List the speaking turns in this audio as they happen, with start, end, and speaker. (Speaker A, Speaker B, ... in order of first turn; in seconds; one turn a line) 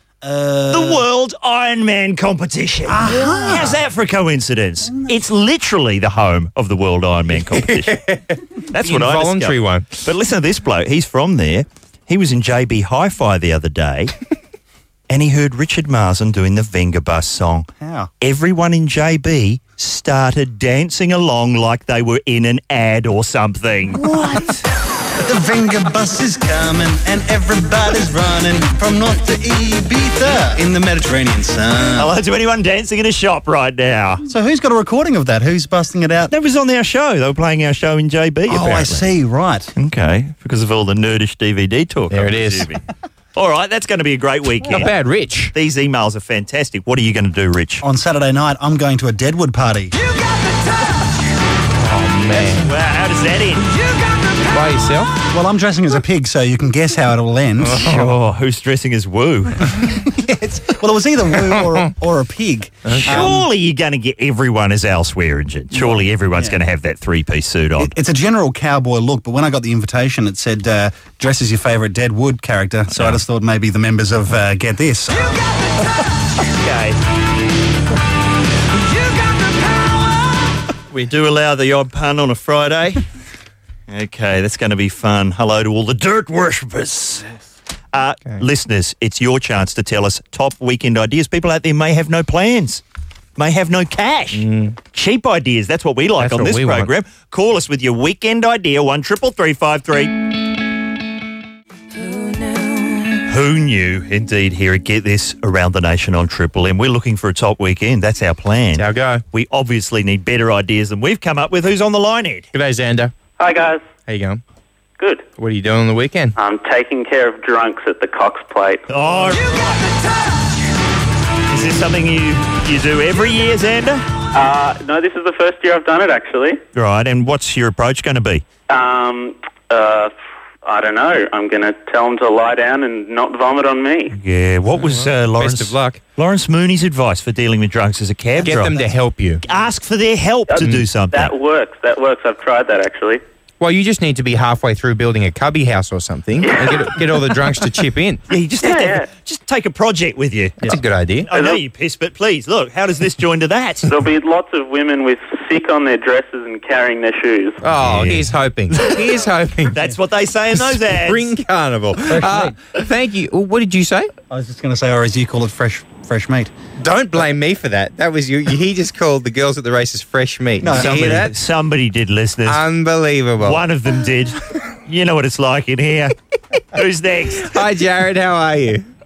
Speaker A: 0.2-1.0
Speaker B: 0.7-8.0
Speaker A: 2.9-3.8
Speaker C: 7.5-9.9
Speaker B: 8.7-14.1
Speaker B: 15.1-24.4
Speaker A: 17.8-18.1
Speaker A: 24.0-24.5
Speaker A: 25.2-32.1
Speaker B: 32.0-34.2
Speaker A: 34.2-36.3
Speaker B: 36.3-39.1
Speaker A: 38.5-39.7
Speaker B: 39.8-42.8
Speaker C: 42.1-42.7
Speaker B: 43.3-44.9
Speaker C: 44.7-45.5
Speaker B: 45.5-47.8
Speaker A: 47.8-49.9
Speaker C: 51.7-52.7
Speaker B: 52.4-53.7
Speaker C: 54.5-55.1
Speaker A: 55.3-57.9
Speaker C: 57.6-58.1
Speaker B: 57.8-59.8
Speaker A: 60.1-63.4
Speaker C: 61.5-61.9
Speaker C: 62.8-63.4
Speaker B: 63.0-67.9
Speaker A: 65.7-66.6
Speaker A: 67.8-75.4
Speaker B: 76.5-77.0
Speaker B: 80.9-83.0
Speaker B: 83.9-87.2
Speaker B: 87.9-92.8
Speaker B: 93.4-100.2
Speaker C: 94.3-94.8
Speaker C: 96.2-96.9
Speaker B: 103.3-112.5
Speaker C: 108.7-109.2
Speaker C: 112.5-113.1
Speaker D: 113.4-113.8
Speaker C: 114.1-114.4
Speaker C: 115.4-116.3
Speaker D: 116.3-118.8
Speaker B: 118.9-119.9
Speaker B: 121.5-124.0
Speaker D: 124.3-126.6
Speaker B: 126.7-128.4
Speaker D: 128.7-130.1
Speaker D: 130.6-134.1
Speaker B: 134.2-138.8
Speaker C: 134.8-136.0
Speaker C: 138.4-139.4
Speaker B: 139.4-141.3
Speaker D: 141.1-143.2
Speaker C: 143.6-148.2
Speaker D: 146.4-146.9
Speaker B: 148.3-150.8
Speaker D: 148.6-149.1
Speaker C: 150.6-151.3
Speaker B: 151.3-153.9
Speaker D: 151.3-151.6
Speaker D: 153.9-157.6
Speaker C: 157.6-159.8
Speaker B: 157.7-159.0
Speaker B: 159.7-161.3
Speaker C: 160.6-164.1
Speaker A: 162.1-162.6
Speaker A: 164.3-166.5
Speaker C: 166.8-171.3
Speaker A: 170.6-171.3
Speaker B: 170.7-172.6
Speaker C: 172.4-173.6
Speaker B: 173.4-176.1
Speaker B: 176.7-177.5
Speaker C: 177.4-178.8